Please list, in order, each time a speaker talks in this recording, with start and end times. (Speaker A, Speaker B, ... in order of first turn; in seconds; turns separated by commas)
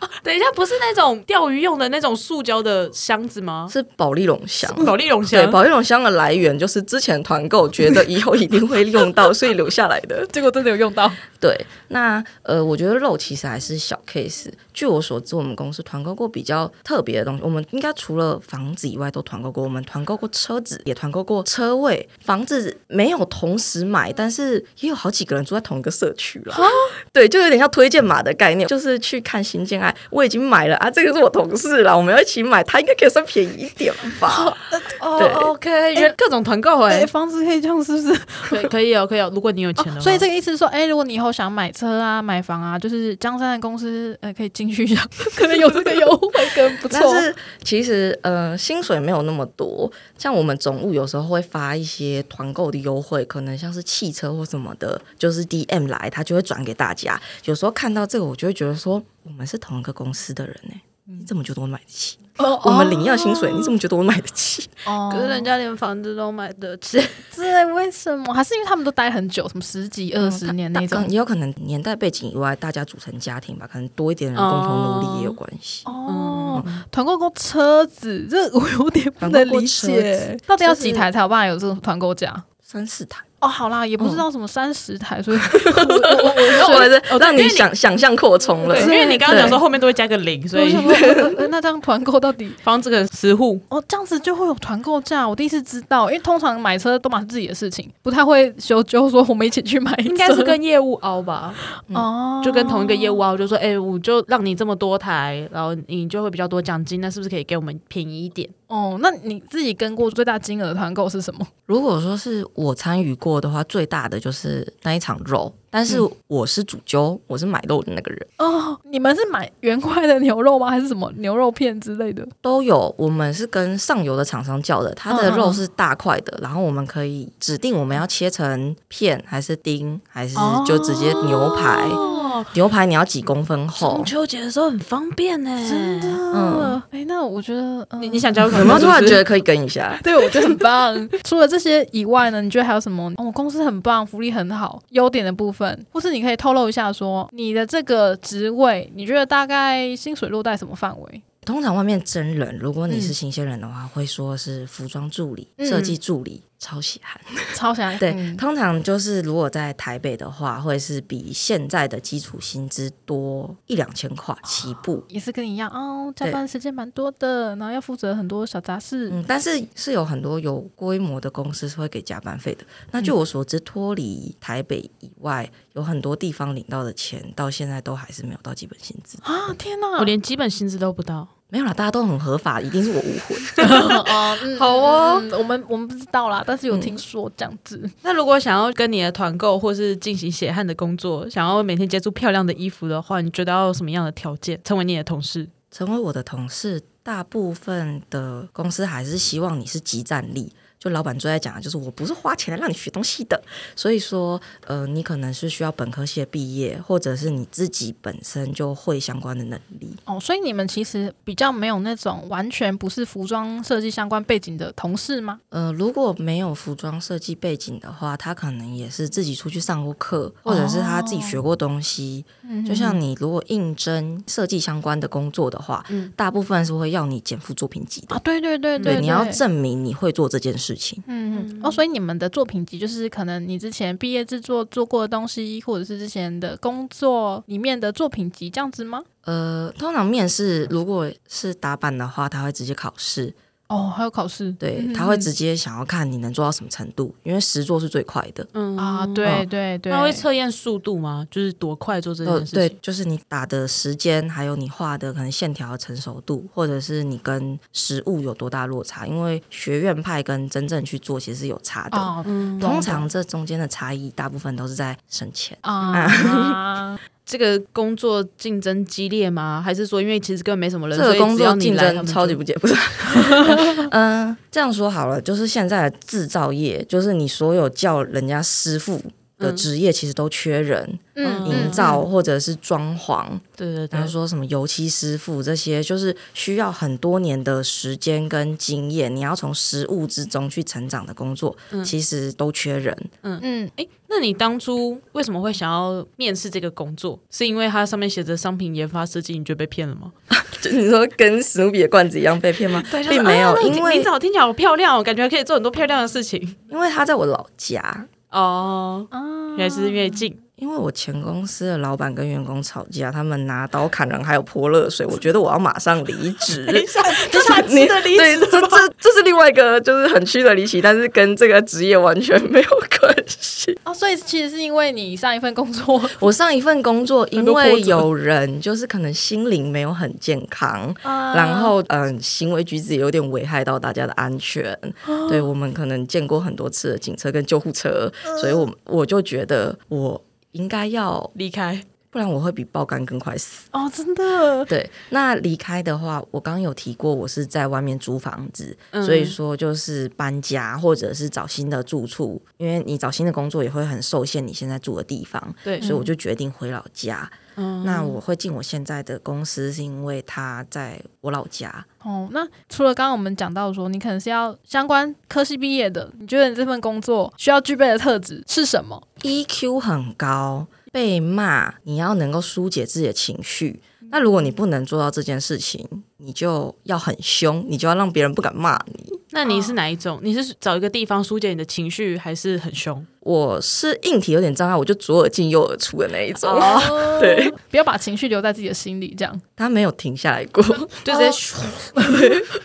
Speaker A: 0.2-3.7, Speaker B: 3.7-10.3, Speaker A: 4.7-5.6, Speaker C: 10.3-11.2, Speaker B: 11.4-34.6, Speaker C: 26.5-26.9, Speaker C: 34.3-36.1, Speaker A: 35.2-37.1, Speaker B: 35.2-35.5, Speaker C: 36.9-38.7, Speaker A: 38.5-40.2, Speaker C: 39.8-47.3, Speaker B: 46.9-64.7, Speaker C: 62.4-63.8, Speaker C: 64.8-65.5, Speaker A: 65.1-67.3, Speaker C: 67.3-71.1, Speaker B: 70.2-75.9, Speaker A: 74.3-75.4, Speaker C: 75.9-82.5, Speaker A: 76.1-76.8, Speaker B: 79.2-80.3, Speaker A: 80.6-81.1, Speaker B: 82.7-83.2, Speaker C: 83.4-86.9, Speaker B: 84.0-84.2, Speaker B: 85.4-89.6, Speaker A: 86.5-87.7, Speaker C: 88.7-89.6, Speaker A: 88.7-91.0, Speaker C: 90.5-92.6, Speaker B: 90.9-91.4, Speaker A: 92.6-93.6, Speaker C: 93.7-100.6, Speaker A: 100.1-101.6, Speaker C: 101.8-103.2, Speaker A: 102.4-108.5, Speaker C: 108.7-111.5, Speaker B: 111.7-118.3, Speaker C: 118.4-122.3, Speaker B: 122.4-132.0, Speaker C: 125.1-125.6, Speaker C: 130.3-132.4, Speaker A: 131.8-132.5, Speaker B: 132.5-134.1, Speaker A: 133.8-136.2, Speaker C: 135.6-139.0, Speaker B: 136.3-136.8, Speaker A: 138.0-139.2, Speaker B: 138.5-140.0, Speaker C: 140.0-151.2, Speaker B: 151.4-165.1, Speaker C: 152.9-153.2, Speaker C: 155.6-156.0, Speaker C: 157.5-158.4, Speaker C: 165.1-169.2, Speaker B: 169.1-179.2, Speaker C: 179.2-180.1, Speaker A: 180.0-181.3, Speaker B: 181.5-183.6, Speaker A: 183.5-185.3, Speaker C: 183.6-187.9, Speaker B: 186.7-187.0, Speaker A: 188.0-195.5, Speaker B: 195.7-210.0, Speaker C: 210.1-215.4, Speaker B: 215.5-228.2, Speaker C: 220.5-221.4, Speaker C: 222.4-223.0, Speaker C: 228.1-229.4, Speaker A: 228.8-229.1, Speaker B: 228.8-231.0, Speaker C: 231.1-239.1, Speaker A: 231.3-231.8, Speaker B: 239.2-243.4, Speaker C: 243.7-245.3, Speaker B: 244.6-248.5, Speaker A: 248.5-252.8, Speaker C: 248.8-250.2, Speaker B: 252.2-266.4, Speaker C: 261.9-263.1, Speaker A: 262.2-262.7, Speaker C: 265.6-267.0, Speaker A: 265.8-266.4, Speaker A: 267.3-272.4, Speaker B: 270.9-293.1, Speaker A: 273.1-273.5, Speaker C: 273.5-273.8, Speaker A: 279.4-279.7, Speaker C: 281.1-281.9, Speaker A: 281.2-282.1, Speaker A: 283.6-284.1, Speaker A: 293.2-300.1, Speaker C: 293.4-293.7, Speaker B: 300.3-304.1, Speaker A: 302.8-306.6, Speaker B: 306.7-308.1, Speaker A: 308.3-310.4, Speaker C: 309.1-310.2, Speaker B: 310.6-323.8, Speaker A: 316.6-318.9, Speaker C: 316.9-317.8, Speaker C: 323.9-326.2, Speaker B: 326.2-341.3, Speaker A: 327.4-328.1, Speaker C: 331.0-331.7, Speaker C: 335.1-335.5, Speaker C: 338.2-338.6, Speaker A: 341.4-341.9, Speaker B: 342.1-343.7, Speaker C: 343.7-344.7, Speaker B: 344.7-361.9, Speaker A: 348.9-349.4, Speaker A: 355.7-355.9, Speaker C: 355.8-356.1, Speaker A: 357.6-358.2, Speaker C: 362.0-369.1, Speaker B: 369.2-379.2, Speaker A: 379.3-383.1, Speaker C: 379.5-379.8, Speaker B: 383.2-387.6, Speaker A: 386.4-387.1, Speaker C: 386.6-389.4, Speaker B: 389.6-391.1, Speaker A: 391.1-391.7, Speaker C: 391.1-392.3, Speaker B: 392.0-392.5